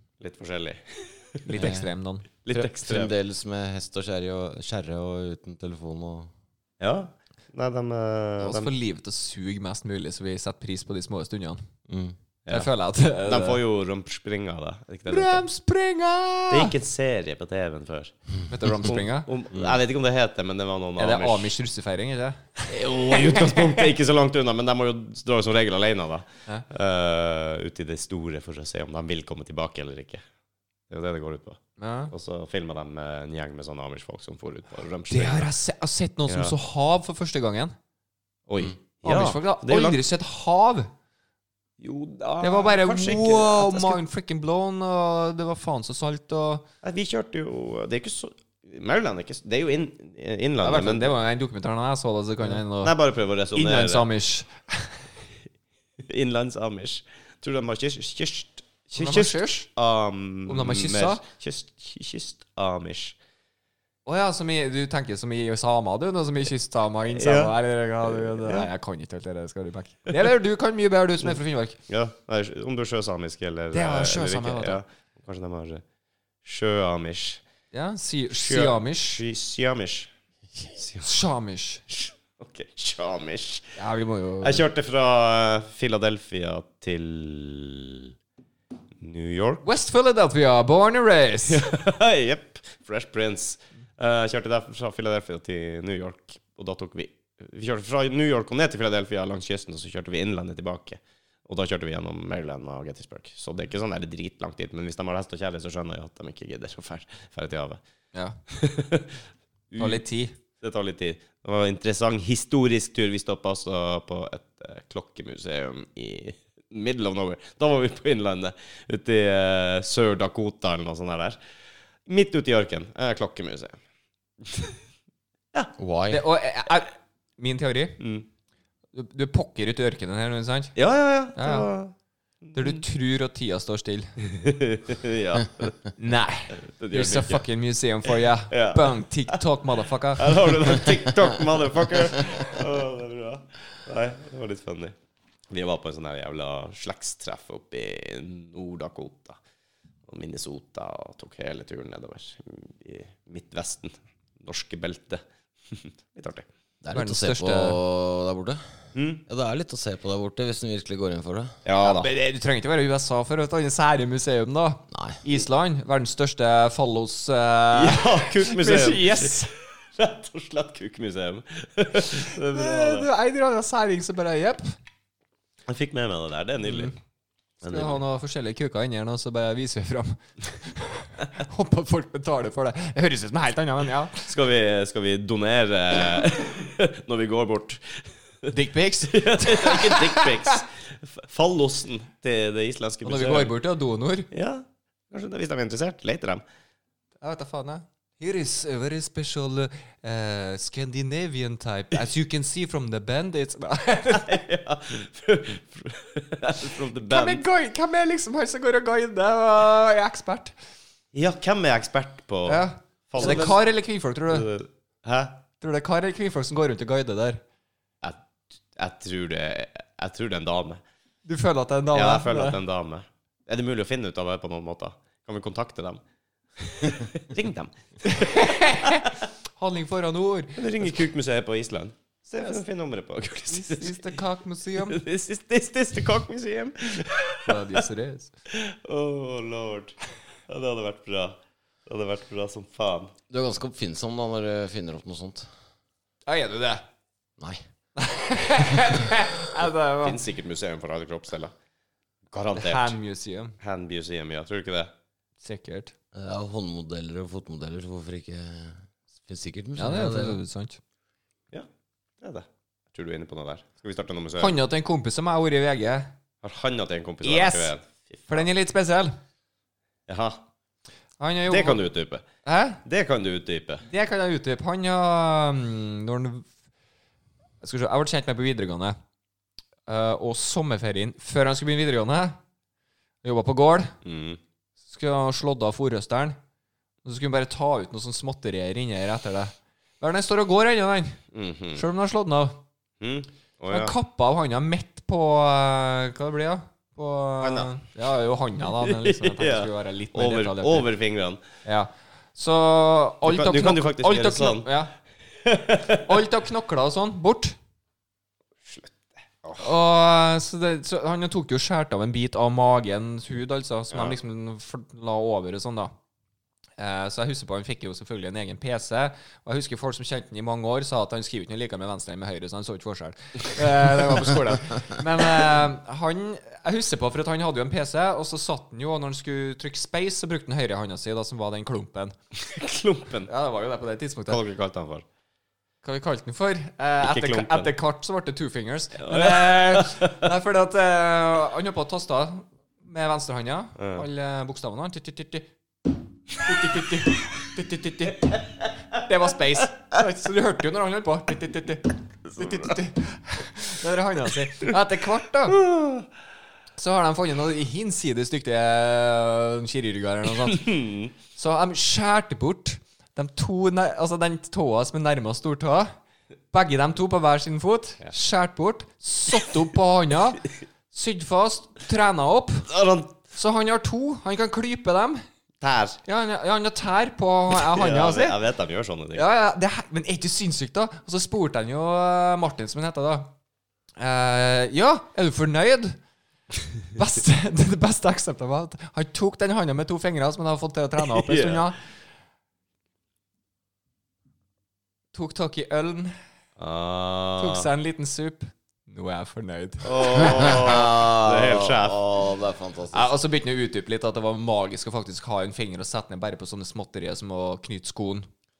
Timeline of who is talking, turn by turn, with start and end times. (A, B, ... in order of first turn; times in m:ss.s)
0:00.2-0:01.6 A
0:01.4-0:02.3 B
0:01.6-0:01.9 C
0:02.4-0:03.1 A
0:02.5-0:06.3 C
0:06.8-0:08.7 A
0:08.4-0:11.6 B
0:11.9-0:12.2 C
0:12.5-0:13.6 B
0:13.2-0:15.4 A
0:15.1-0:16.7 B
0:16.5-0:18.1 A
0:18.5-0:19.3 B
0:18.6-0:21.5 A
0:21.0-0:23.9 B
0:22.7-0:30.2 A
0:30.9-0:31.6 A
0:31.8-0:32.1 B
0:32.1-0:35.5 A
0:35.1-0:37.7 B
0:36.3-0:36.5 A
0:38.5-0:40.0 A
0:39.0-0:40.9 B
0:41.8-0:44.0 A
0:42.4-0:46.6 B
0:46.8-0:51.1 A
0:50.6-0:52.9 B
0:52.4-0:54.1 A
0:53.5-0:55.0 B
0:56.0-1:03.2 A
0:59.0-0:59.7 B
1:00.5-1:01.2 B
1:04.0-1:11.8 B
1:07.1-1:08.7 A
1:11.9-1:15.8 A
1:13.7-1:14.8 B
1:16.4-1:17.4 A
1:17.7-1:19.2 B
1:18.3-1:20.1 A
1:20.7-1:21.1 A
1:21.0-1:21.8 B
1:21.9-1:23.7 A
1:23.8-1:24.6 B
1:24.4-1:28.2 A
1:29.0-1:29.6 A
1:29.6-1:31.6 B
1:31.5-1:47.8 A
1:48.5-1:50.0 A
1:49.8-1:50.4 B
1:50.6-2:01.4 A
2:02.1-2:03.8 A
2:04.4-2:04.8 A
2:05.8-2:06.2 C
2:06.1-2:08.0 B
2:08.0-2:08.3 A
2:08.9-2:10.8 B
2:10.8-2:11.9 A
2:11.4-2:11.7 B
2:12.5-2:12.8 A
2:12.5-2:14.1 B
2:14.3-2:15.8 A
2:16.0-2:20.9 B
2:16.6-2:17.4 A
2:18.5-2:19.4 A
2:20.2-2:24.9 A
2:25.5-2:29.4 A
2:30.1-2:36.5 A
2:36.8-2:38.6 C
2:36.9-2:37.8 B
2:38.9-2:39.2 A
2:39.2-2:41.6 C
2:41.6-2:42.1 A
2:41.8-2:49.5 B
2:44.9-2:45.2 C
2:47.7-2:53.1 A
2:52.4-2:54.7 B
2:55.7-2:56.9 A
2:56.6-2:56.9 B
2:57.6-2:58.0 A
2:57.6-3:04.3 B
3:04.3-3:08.5 A
3:08.5-3:10.6 B
3:09.1-3:13.5 A
3:13.0-3:14.3 B
3:14.3-3:16.4 A
3:17.2-3:24.4 B
3:24.1-3:27.4 A
3:27.0-3:30.5 B
3:31.1-3:33.6 A
3:32.5-3:34.5 B
3:34.3-3:35.4 A
3:35.6-3:37.4 B
3:38.7-3:40.8 A
3:41.2-3:42.6 B
3:41.9-3:46.0 A
3:46.6-3:49.1 A
3:48.0-3:50.9 B
3:50.6-3:54.1 A
3:53.5-3:55.0 B
3:54.8-3:57.8 A
3:57.4-3:58.3 B
3:58.5-3:59.9 A
4:00.5-4:03.1 A
4:03.3-4:05.5 C
4:06.2-4:06.8 B
4:08.0-4:10.2 B
4:10.0-4:11.5 A
4:12.3-4:13.0 A
4:12.5-4:13.6 B
4:13.6-4:14.9 A
4:15.4-4:15.9 B
4:16.1-4:20.4 C
4:19.8-4:20.8 B
4:22.2-4:24.6 A
4:24.4-4:26.1 B
4:26.4-4:28.5 A
4:27.2-4:27.7 B
4:28.3-4:29.2 B
4:30.1-4:30.4 A
4:31.2-4:31.8 B
4:31.5-4:32.2 A
4:32.4-4:32.8 B
4:32.8-4:33.8 A
4:33.9-4:36.4 B
4:37.6-4:39.0 B
4:39.9-4:42.4 B
4:43.2-4:43.9 B
4:44.0-4:44.4 A
4:44.9-4:46.4 B
4:47.0-4:51.2 B
4:51.3-4:51.8 A
4:51.7-4:52.6 B
4:53.0-4:53.9 A
4:53.7-5:00.9 B
4:57.4-4:57.7 A
4:58.8-5:01.4 A
5:01.6-5:04.9 B
5:03.2-5:04.7 A
5:05.4-5:06.0 A
5:06.0-5:07.6 B
5:08.6-5:09.7 A
5:09.6-5:15.9 B
5:13.9-5:14.2 A
5:16.8-5:32.1 B
5:32.3-5:33.3 A
5:33.3-5:34.4 B
5:34.3-5:35.0 A
5:35.8-5:45.4 B
5:37.0-5:37.7 A
5:39.0-5:40.3 A
5:43.8-5:44.0 A
5:46.3-5:55.6 B
5:52.3-5:52.7 A
5:55.5-5:56.1 A
5:56.8-6:05.9 B
6:00.7-6:01.1 A
6:06.5-6:12.7 B
6:12.7-6:13.2 A
6:13.3-6:15.2 B
6:15.6-6:16.0 A
6:16.1-6:18.4 B
6:17.5-6:19.2 A
6:19.1-6:23.3 B
6:24.0-6:26.0 B
6:26.8-6:31.8 B
6:31.1-6:31.7 A
6:35.1-6:36.1 B
6:36.6-6:37.7 A
6:37.4-6:40.5 B
6:39.8-6:42.1 A
6:40.1-6:43.1 C
6:42.9-6:48.3 B